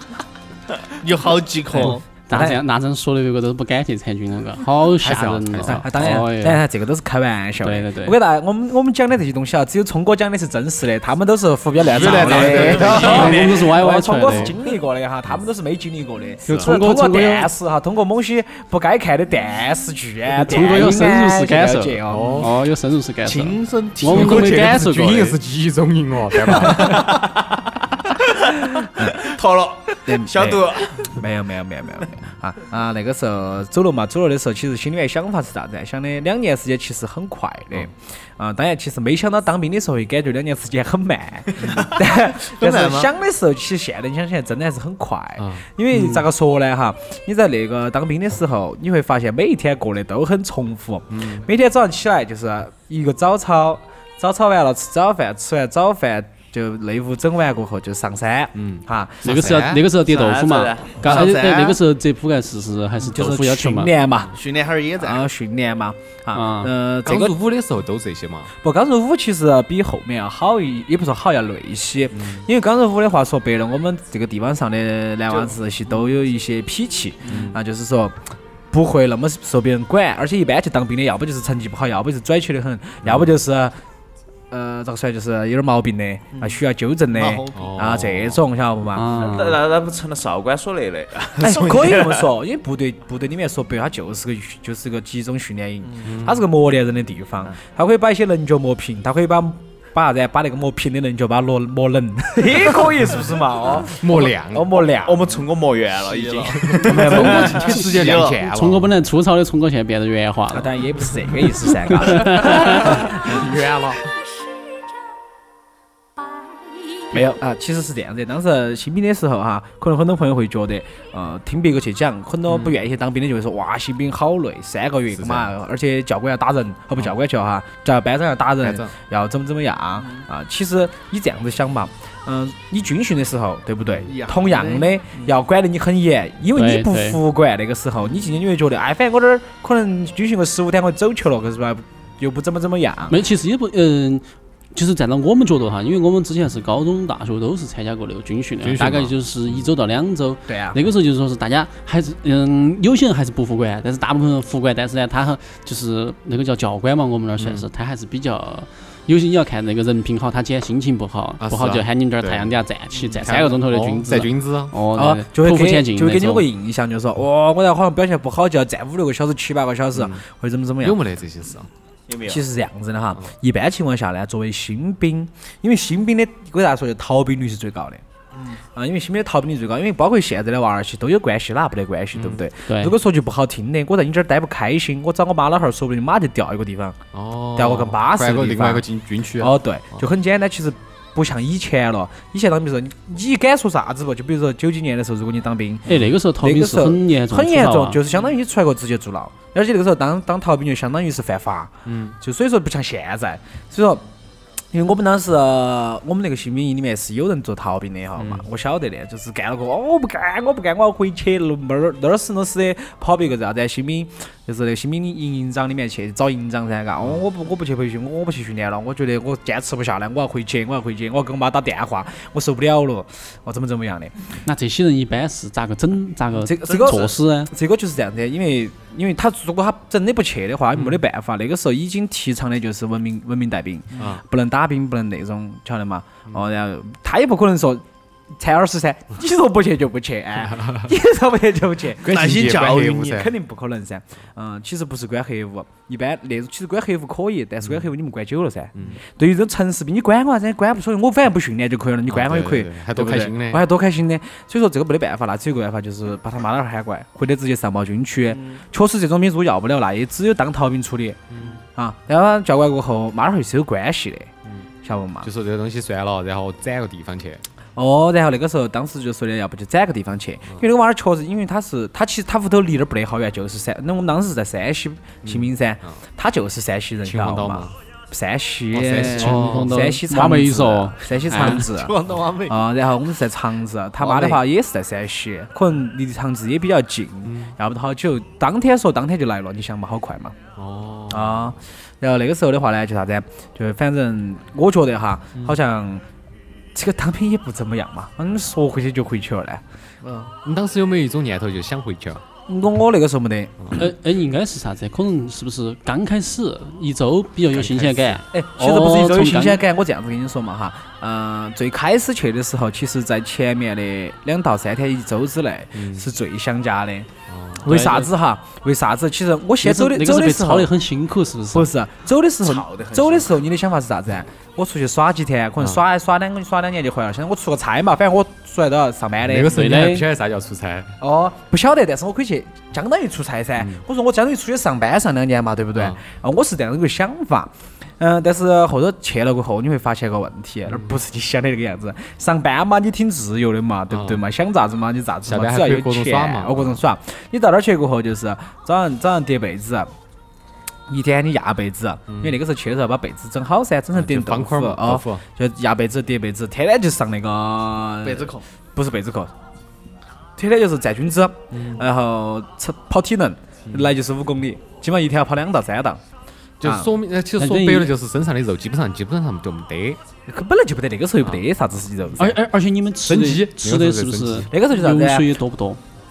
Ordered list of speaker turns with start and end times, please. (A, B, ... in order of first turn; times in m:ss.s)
0:01.0-0:02.0 A
0:01.8-0:02.6 B
0:01.8-0:06.6 C
0:05.0-0:06.2 D
0:05.6-0:22.5 B
0:07.6-0:08.2 C
0:11.8-0:13.5 D
0:12.0-0:14.5 C
0:14.3-0:14.6 D
0:16.4-0:16.7 D
0:16.5-0:17.5 C
0:20.3-0:25.4 C
0:22.1-0:22.5 D
0:23.2-0:24.6 A
0:24.1-0:27.8 D
0:26.4-0:27.2 B
0:28.9-0:29.2 B
0:29.1-0:31.2 E
0:30.0-0:59.3 B
0:42.5-0:43.1 A
0:45.4-0:45.6 D
0:45.9-0:46.2 C
0:51.1-0:51.4 D
0:58.6-0:59.9 D
0:59.2-1:03.9 C
1:00.0-1:01.1 E
1:01.0-1:01.8 A
1:03.0-1:04.4 B
1:04.3-1:05.3 A
1:05.0-1:07.4 B
1:06.3-1:06.7 C
1:07.0-1:08.5 D
1:08.6-1:23.8 B
1:12.1-1:12.5 D
1:17.3-1:17.6 D
1:23.0-1:23.3 D
1:24.5-1:29.1 B
1:27.1-1:27.5 A
1:27.5-1:28.4 D
1:28.9-1:29.6 C
1:29.1-1:32.3 E
1:31.4-1:45.4 B
1:36.0-1:36.4 D
1:43.8-1:44.8 D
1:45.0-1:47.6 E
1:46.0-1:48.4 A
1:46.6-1:48.9 D
1:46.7-1:47.7 B
1:47.5-1:50.8 C
1:50.5-1:53.5 B
1:51.9-1:53.0 C
1:52.2-1:54.1 D
1:57.1-2:23.2 B
2:02.5-2:02.8 D
2:05.1-2:05.5 D
2:08.6-2:09.0 D
2:13.8-2:14.1 D
2:14.1-2:15.4 A
2:16.6-2:17.2 C
2:23.1-2:46.5 C
2:28.6-2:29.7 D
2:30.5-2:30.8 B
2:37.4-2:37.7 D
2:41.4-2:44.7 D
2:45.0-2:51.0 B
2:49.9-2:50.2 D
2:50.8-2:51.7 D
2:52.1-2:52.4 E
2:52.3-2:58.0 B
2:58.8-3:07.0 B
3:02.1-3:02.4 D
3:02.7-3:02.9 C
3:07.1-3:10.1 D
3:07.6-3:08.8 B
3:09.4-3:15.9 B
3:15.9-3:18.0 C
3:16.4-3:24.0 B
3:21.9-3:22.2 D
3:24.7-3:44.1 B
3:28.2-3:28.5 D
3:44.4-3:47.5 C
3:46.4-3:57.8 B
3:50.7-3:51.0 D
3:54.0-3:54.2 D
3:58.4-4:21.2 B
4:00.4-4:00.9 D
4:02.0-4:03.3 D
4:02.1-4:03.1 A
4:07.6-4:07.9 D
4:08.8-4:09.0 D
4:12.1-4:13.6 D
4:21.3-4:21.6 D
4:21.8-4:24.3 B
4:24.8-4:25.3 B
4:25.2-4:27.4 D
4:27.8-4:41.9 B
4:35.2-4:36.0 D
4:37.0-4:37.7 D
4:38.7-4:39.8 D
4:39.0-4:41.6 C
4:41.4-4:42.6 A
4:42.5-4:50.4 B
4:44.0-4:44.4 A
4:47.2-4:47.5 D
4:50.6-4:51.6 D
4:51.1-4:56.0 B
4:56.8-4:59.6 B
5:00.0-5:00.3 A
5:00.4-5:02.2 D
5:02.5-5:03.8 B
5:03.8-5:09.6 C
5:07.5-5:08.2 D
5:08.3-5:17.1 B
5:15.8-5:16.1 D
5:17.3-5:17.7 D
5:17.6-5:20.7 B
5:17.6-5:18.1 C
5:19.6-5:21.7 C
5:21.5-5:29.6 B
5:22.5-5:23.3 E
5:29.2-5:31.0 D
5:29.5-5:30.1 C
5:31.0-5:49.9 B
5:40.7-5:41.0 D
5:43.9-5:44.2 D
5:45.3-5:46.8 D
5:50.9-5:59.3 B
5:52.1-5:52.4 D
5:53.9-5:55.2 D
5:58.0-5:58.4 A
6:00.4-6:06.0 B
6:01.5-6:01.8 D
6:06.6-6:10.0 D
6:06.6-6:06.9 B
6:07.4-6:07.9 C
6:10.3-6:12.4 B
6:12.2-6:15.8 C
6:13.1-6:14.5 D
6:14.5-6:15.4 B